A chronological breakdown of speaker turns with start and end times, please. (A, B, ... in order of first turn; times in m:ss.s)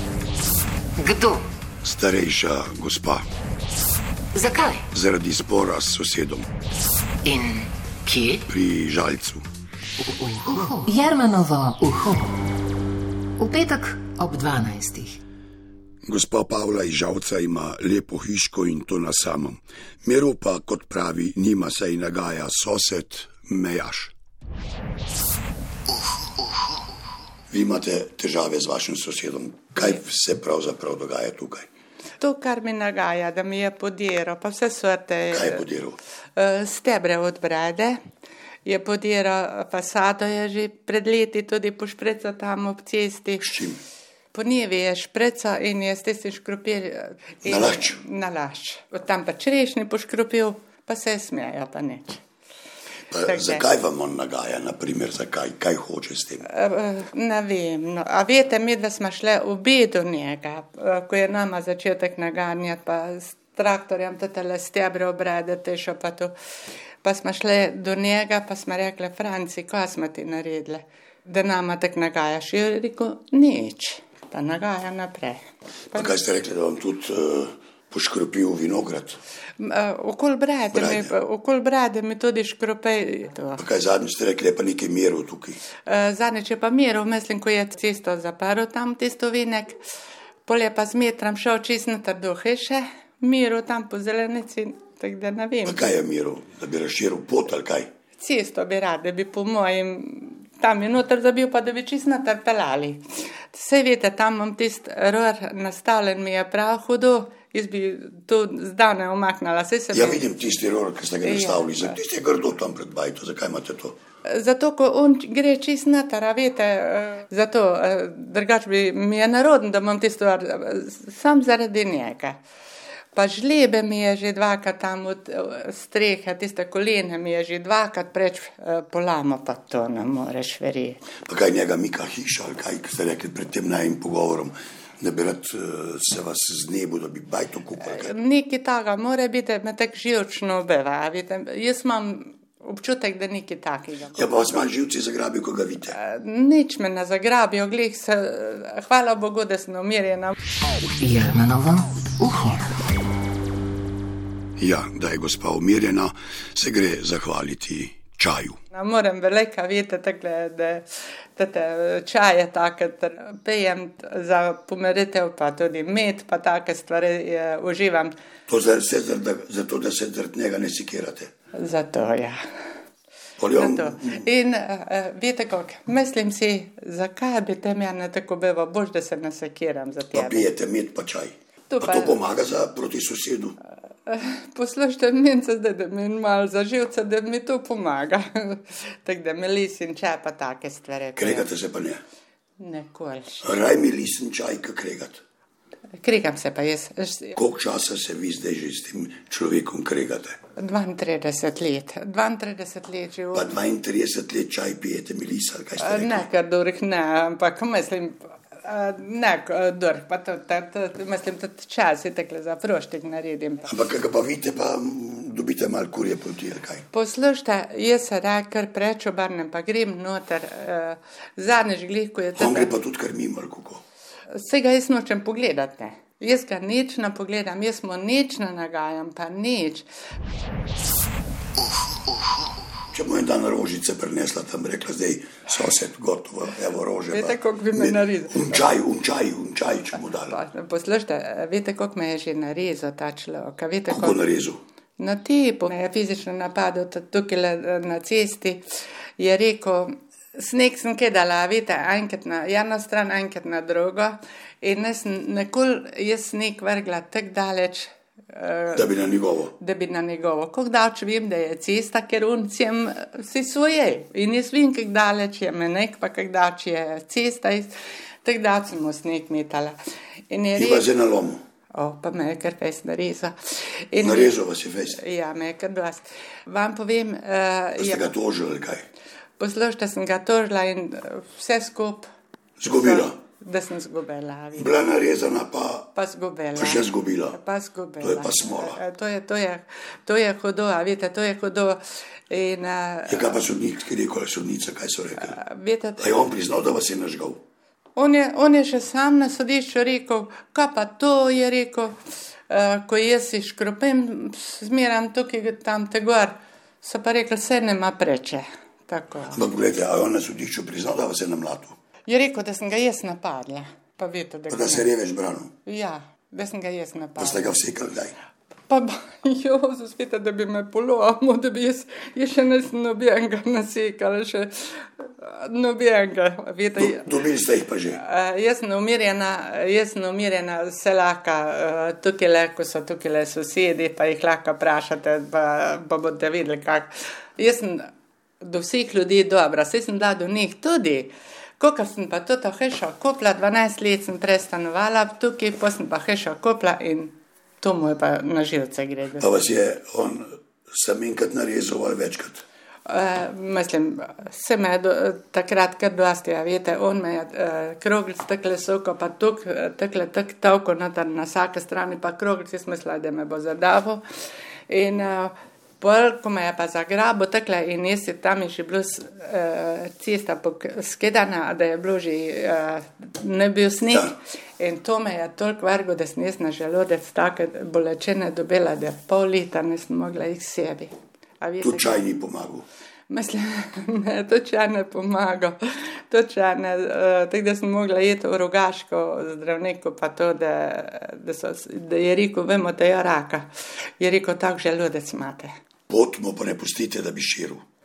0:01.0-0:01.5 A
0:01.8-0:03.2 B
0:04.3-0:04.9 A
0:04.9-0:06.5 B
0:07.2-0:08.4 A
0:08.5-0:09.4 B
0:10.0-0:12.4 A
0:13.4-0:15.2 A
0:16.1-0:24.1 B
0:27.5-0:31.7 B
0:32.2-0:35.6 C
0:35.3-0:36.0 B
0:36.4-0:38.0 C
0:38.6-0:43.5 C
0:43.4-0:43.8 B
0:44.3-0:52.2 C
0:47.4-0:48.0 B
0:53.1-0:56.5 B
0:53.2-0:53.6 C
0:56.5-1:06.3 C
1:07.0-1:16.1 C
1:15.9-1:19.2 B
1:19.6-1:23.6 C
1:20.7-1:21.1 B
1:23.6-1:25.6 B
1:25.8-1:29.8 C
1:30.4-1:35.9 C
1:35.6-1:37.9 B
1:38.2-1:50.3 C
1:49.9-1:54.0 B
1:51.2-1:51.9 C
1:54.2-2:02.4 C
2:03.1-2:11.1 C
2:11.2-2:18.1 B
2:17.8-2:24.6 C
2:24.2-2:26.0 B
2:25.9-2:30.4 C
2:31.0-2:32.7 A
2:34.6-2:38.6 B
2:38.7-2:48.1 C
2:48.5-2:51.3 B
2:51.6-2:52.4 C
2:53.4-2:54.3 B
2:53.6-3:00.5 C
3:00.1-3:03.6 B
3:01.7-3:02.2 C
3:04.1-3:11.5 C
3:11.2-3:12.0 B
3:12.6-3:13.5 C
3:13.4-3:15.2 B
3:16.0-3:17.4 C
3:17.4-3:20.4 B
3:20.6-3:23.5 C
3:23.3-3:26.3 B
3:25.8-3:33.7 C
3:33.7-3:36.9 B
3:36.9-3:42.7 C
3:42.4-3:43.8 B
3:44.3-3:49.9 C
3:52.9-4:00.4 B
3:57.1-3:58.7 C
4:00.1-4:04.2 C
4:03.9-4:04.6 B
4:05.0-4:08.6 C
4:09.2-4:18.9 C
4:18.7-4:19.5 B
4:19.6-4:29.8 C
4:30.3-4:30.9 C
4:30.6-4:31.4 B
4:31.7-4:34.4 C
4:34.0-4:35.0 B
4:34.9-4:38.1 C
4:37.8-4:38.9 B
4:39.4-4:42.0 C
4:42.6-4:43.2 B
4:42.7-4:44.7 C
4:44.6-4:45.9 B
4:46.0-4:53.4 C
4:46.6-4:47.4 B
4:48.0-4:48.8 B
4:53.1-4:55.4 B
4:55.2-4:56.3 C
4:56.0-4:57.4 B
4:58.0-5:02.0 C
5:02.5-5:09.4 C
5:09.3-5:11.8 B
5:12.1-5:14.9 C
5:14.5-5:15.5 B
5:15.6-5:17.6 C
5:17.2-5:18.2 B
5:18.7-5:27.2 C
5:26.8-5:28.0 B
5:28.0-5:37.9 C
5:38.4-5:49.3 C
5:49.2-5:52.4 B
5:52.9-6:04.0 C
6:04.7-6:22.0 C
6:21.6-6:22.6 B
6:23.1-6:33.5 C
6:34.0-6:35.5 C
6:35.9-6:37.6 B